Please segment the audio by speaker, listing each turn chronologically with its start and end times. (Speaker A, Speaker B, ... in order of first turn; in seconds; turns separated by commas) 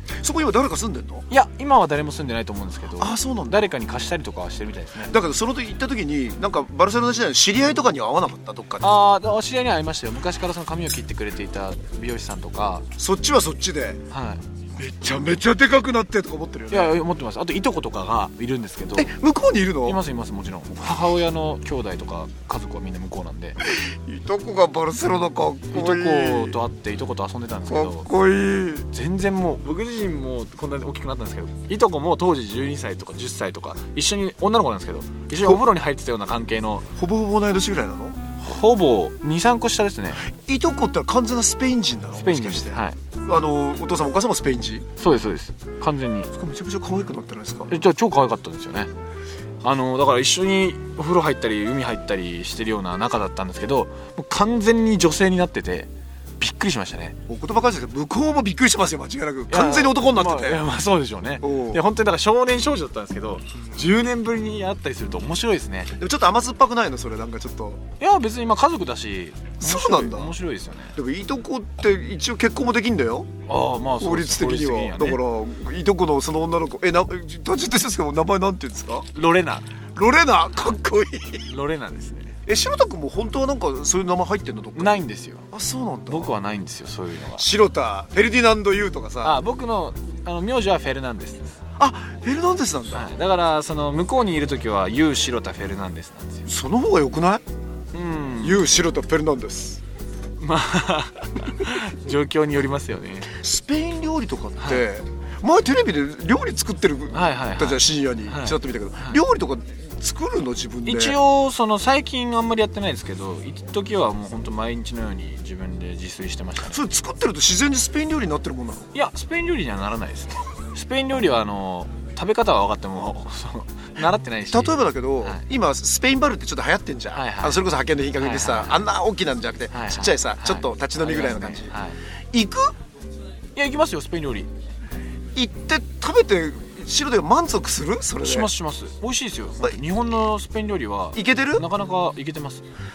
Speaker A: 0.2-1.2, Speaker B: 1.3-5.2, Speaker A: 3.0-3.6, Speaker A: 5.1-8.9, Speaker B: 8.8-12.9, Speaker A: 13.0-14.0, Speaker B: 14.1-14.4, Speaker A: 14.8-16.9, Speaker B: 16.7-19.1, Speaker A: 18.9-20.0, Speaker B: 19.8-23.6, Speaker A: 23.7-26.6, Speaker B: 25.7-28.1, Speaker A: 27.7-28.9, Speaker B: 28.9-36.9, Speaker A: 37.0-38.2, Speaker B: 38.4-40.2, Speaker A: 40.2-44.9, Speaker B: 42.2-43.0, Speaker B: 45.0-46.3, Speaker A: 46.3-47.7, Speaker B: 47.7-48.9, Speaker B: 49.6-57.2, Speaker A: 57.3-60.6, Speaker B: 59.5-65.9, Speaker A: 61.4-61.8, Speaker A: 65.9-67.8, Speaker B: 68.0-71.0, Speaker A: 69.6-70.3, Speaker A: 71.0-73.3, Speaker B: 73.5-75.2, Speaker A: 74.0-79.1, Speaker B: 79.1-79.7, Speaker A: 80.0-81.4, Speaker B: 81.5-82.3, Speaker A: 82.5-86.3, Speaker B: 84.8-85.5, Speaker B: 86.1-87.5, Speaker A: 87.4-89.4, Speaker B: 89.2-91.6, Speaker A: 91.8-93.1, Speaker B: 92.9-96.5, Speaker A: 96.5-97.4, Speaker B: 97.9-98.6, Speaker A: 98.4-99.8, Speaker B: 100.4-103.3, Speaker A: 103.4-111.2, Speaker B: 104.6-104.8, Speaker B: 107.1-109.2, Speaker B: 110.8-116.8, Speaker A: 116.7-118.9, Speaker B: 118.9-125.5, Speaker A: 124.5-131.7, Speaker B: 127.1-127.6, Speaker B: 128.2-128.9, Speaker B: 129.7-132.0, Speaker A: 132.3-132.8, Speaker B: 133.6-134.5, Speaker A: 135.4-138.5, Speaker B: 138.2-142.6, Speaker A: 141.1-141.6